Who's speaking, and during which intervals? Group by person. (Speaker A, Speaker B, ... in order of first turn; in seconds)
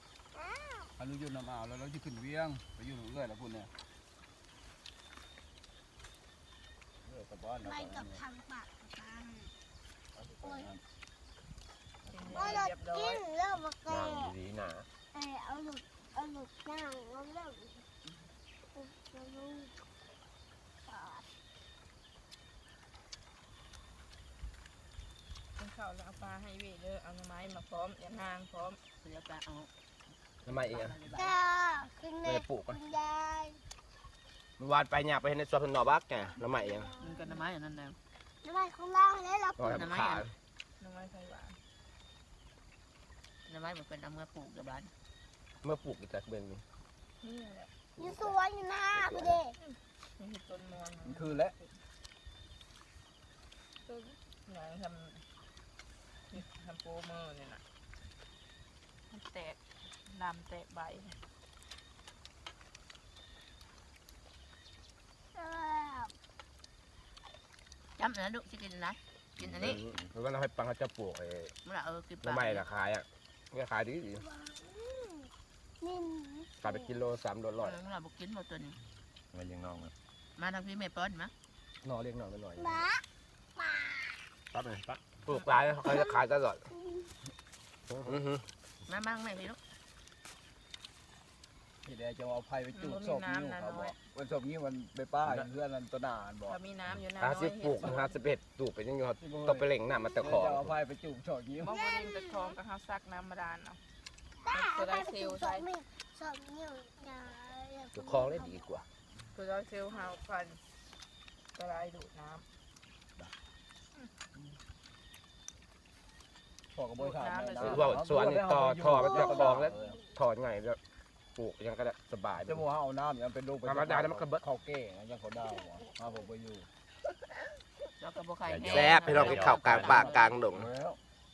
Speaker A: 1.0-3.7, 7.0-8.2, 10.2-10.8, 12.0-12.6, 51.0-51.5, 91.8-96.6, 99.2-101.8, 116.7-120.0, 122.4-126.7, 130.5-131.0
Speaker B: 7.6-9.5, 10.4-10.7, 12.3-14.3, 15.1-17.8, 18.7-19.7, 20.9-21.3, 31.1-33.6, 36.5-37.3, 38.4-39.8, 48.0-49.6, 65.3-66.1, 74.2-75.3, 75.8-76.9, 82.6-83.0, 83.6-84.2, 101.7-102.5, 104.4-108.5
Speaker C: 12.1-13.2, 25.6-28.8, 40.8-41.6, 47.2-47.7, 49.6-51.5, 53.9-55.2, 56.3-57.6, 59.1-59.6, 60.1-61.2, 92.7-94.0, 96.5-98.2, 101.6-103.8, 104.5-105.6, 109.3-110.6, 111.5-112.4, 117.0-118.0
Speaker D: 13.9-14.8, 30.4-31.0, 32.2-32.8, 34.6-36.9, 39.6-40.3, 45.6-46.6, 48.0-48.4, 48.9-49.4, 69.4-71.5, 72.2-74.2, 76.6-77.8, 79.3-79.9, 81.8-82.8, 84.5-86.7, 87.9-88.4, 97.2-100.7, 107.9-108.8, 117.6-120.8, 121.3-122.6, 123.6-124.4, 128.5-130.7
Speaker E: 29.0-29.7, 30.4-31.4, 37.0-38.0, 39.7-40.2, 43.5-44.9, 68.0-69.8, 71.6-72.6, 77.6-78.8, 80.3-81.3, 88.8-89.6, 128.0-130.4